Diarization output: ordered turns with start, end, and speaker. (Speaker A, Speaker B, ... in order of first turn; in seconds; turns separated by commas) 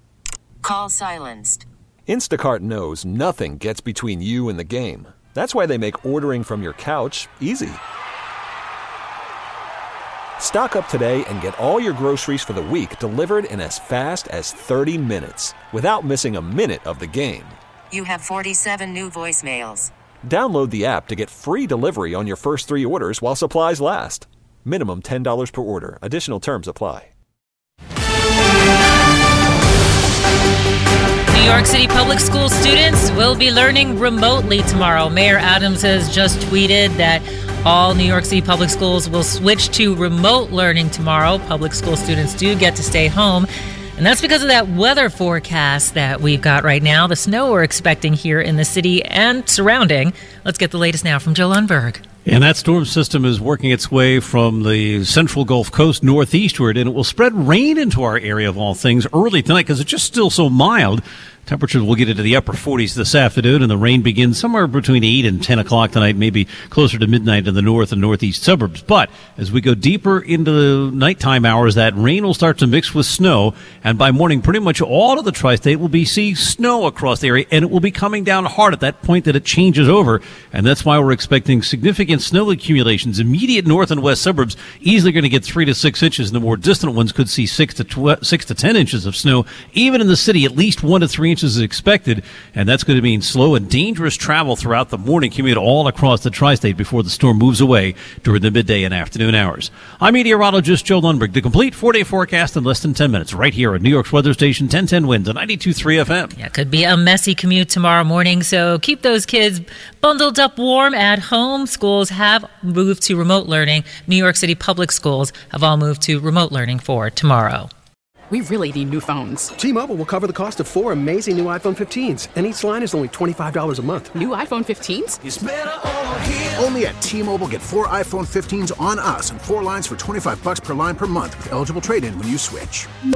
Speaker A: 0.6-1.6, Speaker B: 2.1-7.8, Speaker B: 10.4-17.6, Speaker A: 17.9-19.9, Speaker B: 20.3-27.1, Speaker C: 31.3-52.0, Speaker D: 52.3-106.3, Speaker C: 106.4-117.7, Speaker E: 118.3-119.5, Speaker F: 119.6-124.1, Speaker E: 124.1-125.2, Speaker G: 125.3-132.9